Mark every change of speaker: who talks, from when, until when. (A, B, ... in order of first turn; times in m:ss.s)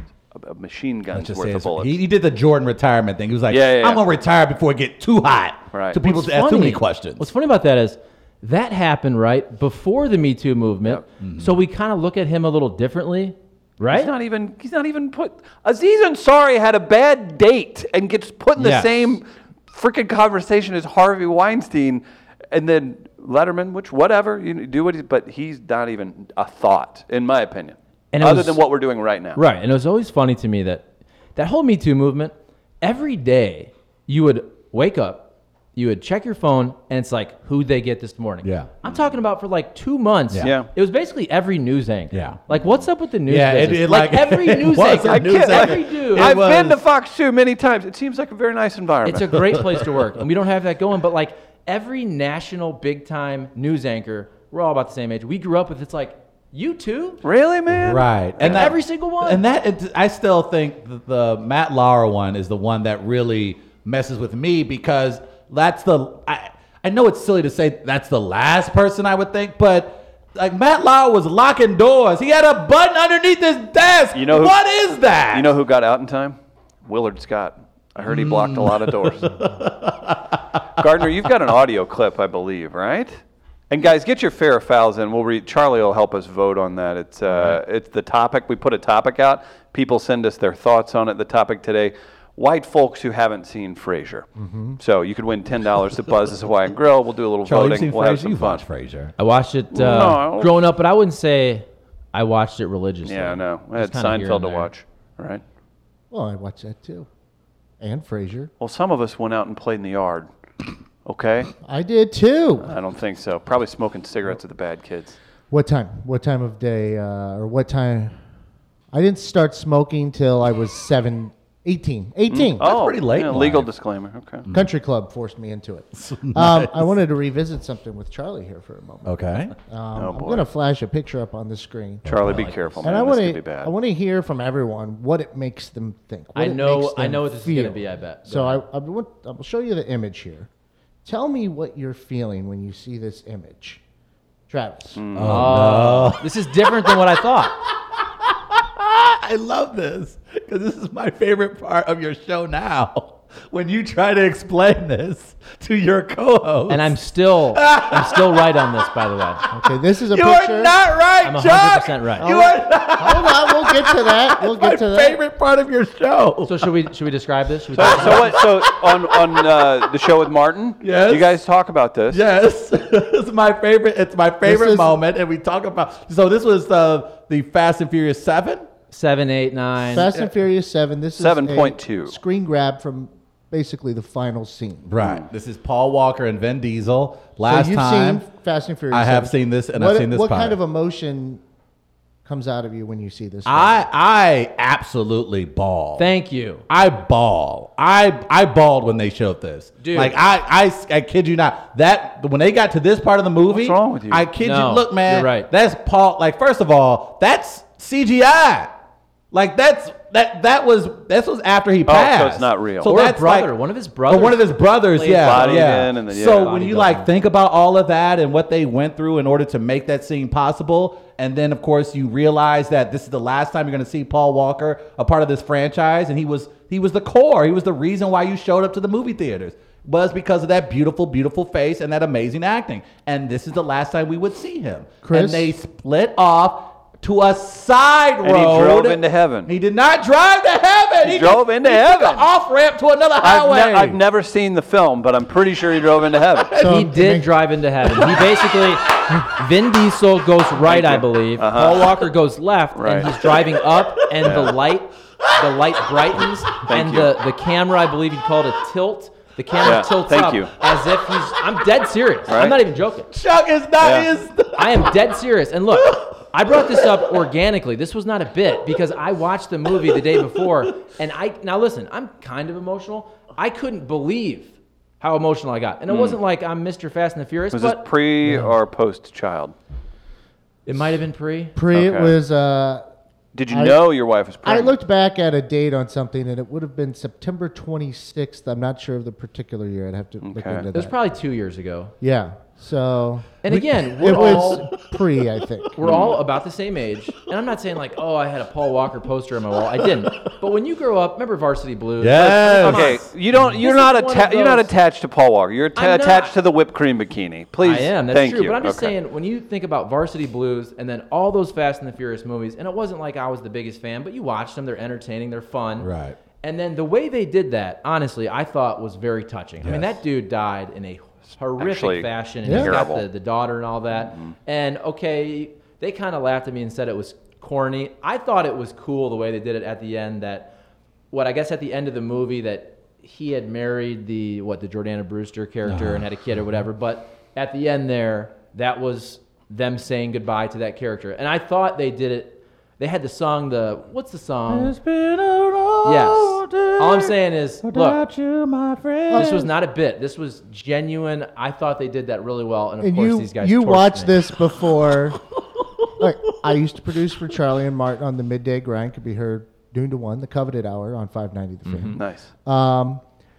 0:00.3-0:02.0 A
0:01.1-0:07.3 B
0:03.5-0:04.0 A
0:05.7-0:06.0 A
0:06.0-0:14.1 C
0:11.2-0:11.6 B
0:13.9-0:29.4 A
0:18.6-0:19.2 C
0:28.1-0:28.6 C
0:29.3-0:46.4 C
0:38.4-0:38.7 B
0:40.4-0:40.7 A
0:42.1-0:42.5 B
0:43.2-0:46.8 B
0:44.9-0:49.4 A
0:49.0-0:57.2 C
0:49.5-0:50.0 B
0:57.2-0:58.7 A
0:57.7-1:15.6 B
0:58.4-0:59.4 C
1:14.1-1:14.6 A
1:15.3-1:19.4 A
1:18.0-1:21.3 B
1:20.8-1:23.1 A
1:23.7-1:34.3 A
1:34.4-1:34.8 D
1:34.8-1:38.6 A
1:37.4-1:39.1 B
1:39.2-1:44.7 C
1:39.7-1:40.6 A
1:43.0-1:45.4 A
1:46.1-1:47.1 D
1:47.8-1:48.5 D
1:48.6-1:50.3 A
1:51.0-1:51.5 A
1:51.6-1:52.7 D
1:52.6-1:55.2 A
1:55.5-1:58.2 D
1:58.9-2:02.6 D
2:02.3-2:04.4 A
2:02.6-2:03.7 B
2:04.5-2:12.1 D
2:05.9-2:07.0 B
2:09.0-2:09.5 B
2:09.9-2:10.5 A
2:12.0-2:12.8 B
2:12.0-2:13.7 A
2:12.3-2:12.7 C
2:12.8-2:20.5 D
2:16.3-2:18.6 C
2:21.0-2:23.8 D
2:24.5-2:25.0 D
2:24.9-2:25.7 A
2:25.1-2:37.0 B
2:25.2-2:27.6 C
2:36.7-2:39.4 C
2:37.5-2:38.9 B
2:39.4-2:46.7 B
2:39.5-2:40.7 D
2:41.2-2:42.3 C
2:42.2-2:45.2 D
2:46.4-2:48.4 C
2:47.7-2:50.1 B
2:47.7-2:52.2 A
2:50.8-2:51.4 B
2:52.1-2:58.7 B
2:54.4-2:54.9 D
2:58.9-3:00.2 C
2:59.8-3:04.9 D
3:01.2-3:02.2 A
3:04.8-3:08.2 B
3:07.4-3:11.4 D
3:08.9-3:10.6 B
3:12.2-3:13.8 D
3:13.4-3:16.1 B
3:16.0-3:16.6 C
3:16.7-3:28.8 B
3:19.8-3:20.2 C
3:23.5-3:24.3 A
3:24.4-3:25.5 C
3:29.3-4:04.0 B
3:31.8-3:32.9 A
3:32.8-3:37.1 C
3:35.1-3:36.6 A
3:55.0-3:55.5 D
3:58.2-3:59.5 A
4:01.0-4:02.3 A
4:03.2-4:06.5 A
4:06.4-4:07.0 B
4:06.6-4:07.3 D
4:06.6-4:23.1 C
4:07.9-4:08.4 B
4:10.6-4:11.9 A
4:12.8-4:13.1 A
4:14.2-4:14.6 A
4:16.7-4:17.1 A
4:19.6-4:20.5 A
4:22.3-4:22.6 A
4:23.1-4:24.9 B
4:23.8-4:24.1 A
4:24.6-4:38.5 C
4:25.8-4:27.0 B
4:29.9-4:30.2 B
4:35.9-4:36.2 A
4:37.5-4:39.5 A
4:40.6-4:41.6 C
4:41.6-4:42.8 D
4:41.7-4:42.2 A
4:43.3-4:44.7 A
4:43.5-4:43.8 D
4:44.4-4:50.9 D
4:50.2-4:50.6 A
4:50.7-4:51.9 C
4:52.0-4:53.4 D
4:53.4-4:54.7 C
4:53.5-4:54.9 B
4:53.9-4:55.8 D
4:55.8-5:04.7 C
4:55.8-4:56.2 A
4:59.8-5:00.3 B
5:02.0-5:03.1 B
5:02.3-5:09.0 A
5:05.8-5:06.4 C
5:07.6-5:15.9 C
5:15.8-5:16.2 B
5:16.4-5:30.5 C
5:19.6-5:20.0 B
5:21.6-5:23.0 A
5:22.4-5:22.7 D
5:24.0-5:24.3 A
5:31.1-5:44.7 C
5:35.6-5:36.6 B
5:44.5-5:49.5 B
5:45.8-5:48.0 C
5:49.1-5:49.5 D
5:49.1-5:54.2 C
5:52.8-5:55.2 D
5:55.9-6:03.0 D
6:01.6-6:02.0 C
6:01.9-6:02.3 A